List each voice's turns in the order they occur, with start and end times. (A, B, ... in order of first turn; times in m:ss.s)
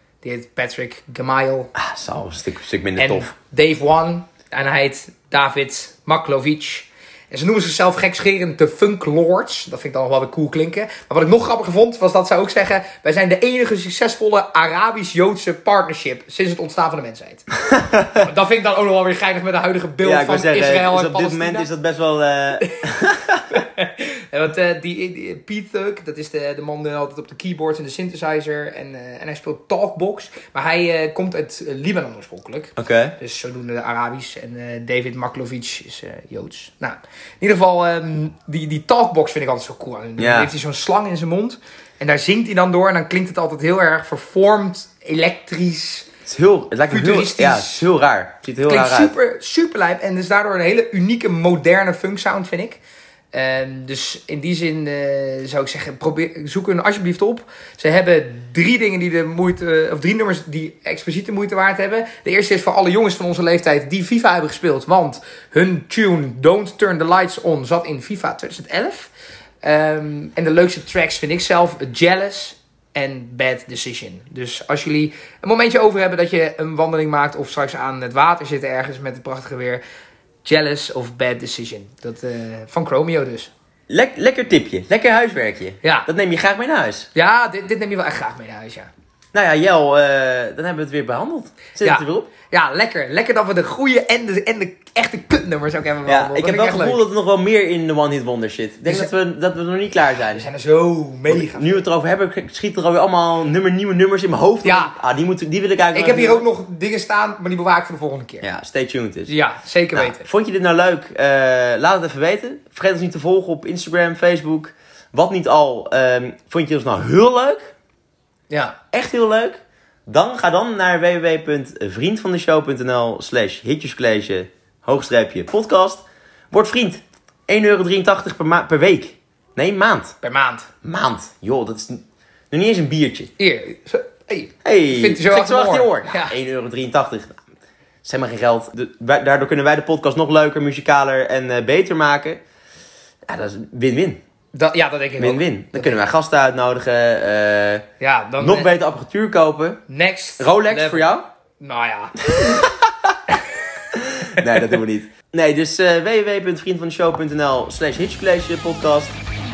0:00.2-0:01.7 A
0:01.7-0:03.3 B
0:03.0-0:17.4 A
0:17.6-0:18.3 B
0:18.2-0:21.7 A
0:20.0-0:23.5 B
0:22.6-0:22.9 A
0:23.5-0:46.1 A
0:32.8-0:33.1 B
0:40.2-0:40.5 B
0:46.2-0:49.1 B
0:46.9-0:47.9 A
0:48.7-0:52.8 A
0:53.3-1:09.1 A
1:09.6-1:19.8 A
1:20.4-1:23.5 A
1:23.9-1:27.1 B
1:25.8-1:26.1 A
1:27.1-1:28.9 A
1:29.3-1:32.3 B
1:31.8-1:37.0 A
1:36.0-1:40.4 B
1:38.8-1:39.1 A
1:40.3-1:41.8 A
1:41.3-1:46.4 B
1:44.6-1:44.9 A
1:45.9-1:48.4 A
1:48.4-1:49.3 B
1:49.3-1:50.2 A
1:49.9-1:57.7 B
1:58.5-1:58.8 A
1:58.9-2:10.2 B
2:10.2-2:10.7 A
2:10.8-2:13.3 B
2:13.4-2:16.3 A
2:14.6-2:17.4 B
2:18.0-2:22.4 B
2:23.3-2:24.2 B
2:24.5-2:26.1 A
2:25.2-2:27.8 B
2:28.0-2:28.7 A
2:28.4-2:29.8 B
2:29.9-2:32.1 A
2:30.4-2:31.3 B
2:32.2-2:33.2 B
2:33.3-2:33.6 A
2:33.9-2:39.2 B